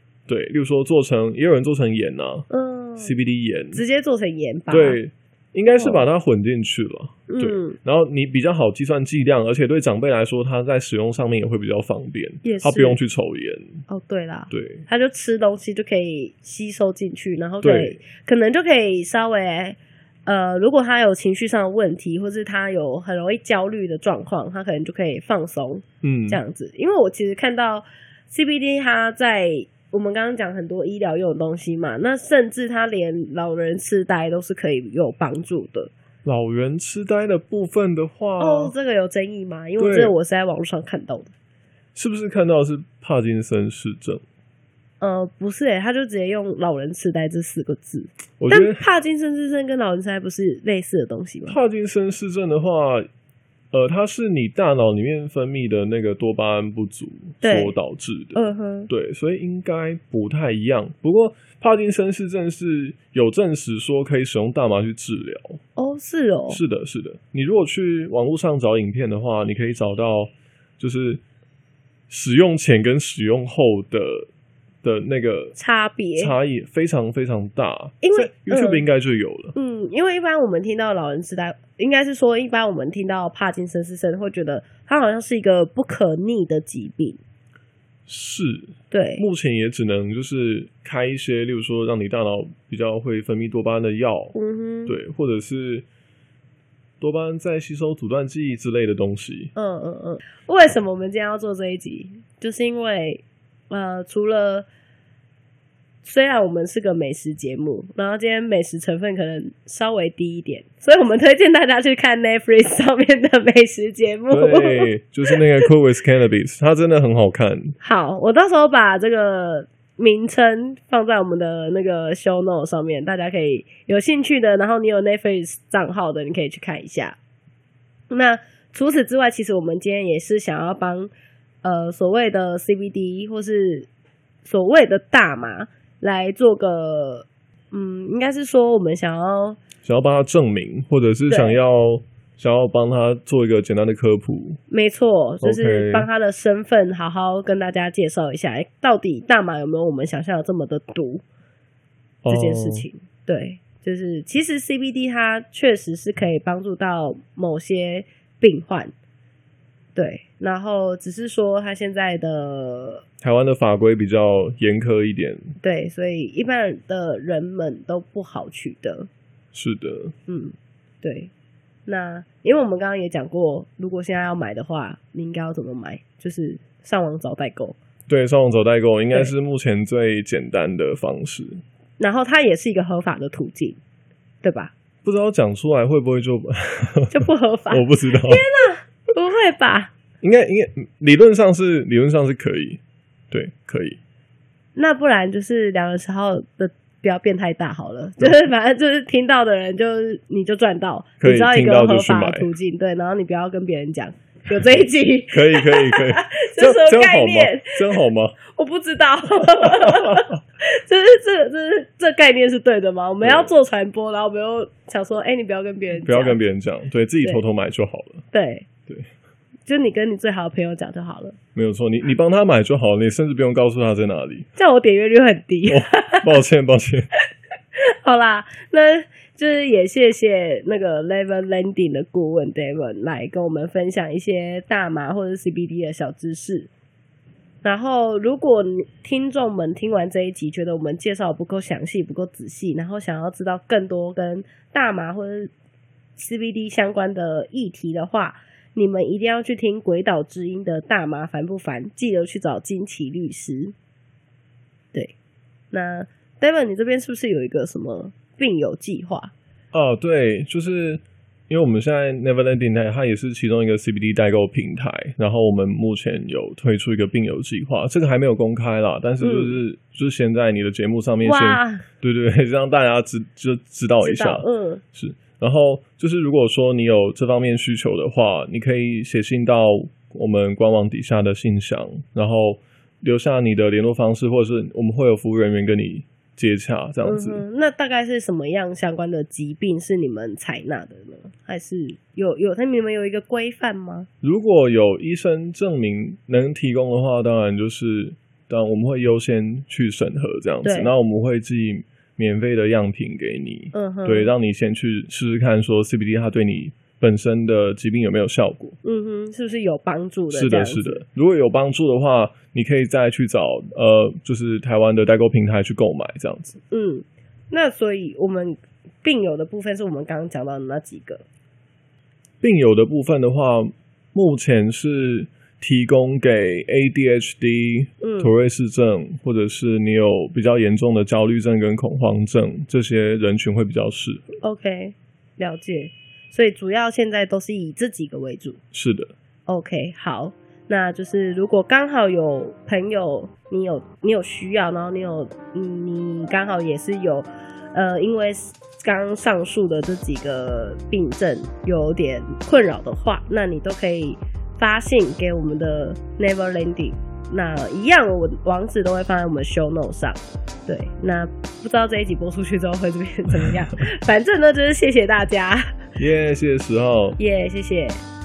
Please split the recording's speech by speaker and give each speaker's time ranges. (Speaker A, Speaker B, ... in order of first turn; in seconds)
Speaker A: 0.3-2.5, 3.0-3.8, 4.7-13.8, 14.5-14.8, 17.6-18.0, 26.0-26.4, 36.2-38.7, 39.8-40.1, 41.9-44.2, 48.4-48.8, 51.5-53.1, 53.7-65.6, 66.5-71.2, 72.1-74.3, 74.8-75.5, 76.2-79.5, 88.1-94.3, 94.8-95.8, 97.0-99.5, 114.3-117.8, 139.8-144.6, 145.4-146.1, 152.2-152.9, 163.2-165.5, 169.5-170.1, 178.1-181.6, 185.0-188.4, 190.2-192.8, 193.3-194.0, 201.2-202.5, 205.3-208.4, 209.4-210.4, 213.2-213.5, 216.0-218.2, 221.5-224.5, 225.7-227.1, 259.7-287.4, 294.2-308.8, 310.3-316.6, 322.4-334.2, 338.7-339.1, 366.0-367.2
Speaker B: 2.5-3.1, 3.7-5.0, 5.7-6.1, 7.3-7.8, 12.4-13.0, 13.9-35.9, 38.4-41.3, 45.0-51.6, 57.4-57.8, 58.3-58.9, 65.8-66.6, 75.5-76.3, 78.0-78.8, 79.5-87.2, 88.9-89.2, 94.3-95.0, 99.5-104.7, 106.0-115.7, 117.8-127.2, 128.1-131.1, 131.6-133.9, 134.4-139.6, 141.3-141.6, 144.7-151.2, 152.3-158.9, 159.9-163.0, 165.6-169.1, 170.3-171.3, 171.8-177.8, 182.0-183.8, 184.4-184.7, 187.1-189.9, 194.8-216.4, 218.3-218.7, 219.7-221.3, 224.6-226.4, 227.8-236.7, 237.6-245.5, 246.2-253.7, 255.7-259.3, 269.2-269.6, 271.2-271.8, 274.0-274.8, 287.0-294.1, 300.6-300.9, 303.7-304.3, 308.8-311.0, 316.7-321.2, 328.0-328.3, 334.4-338.6, 339.5-365.8, 367.2-368.0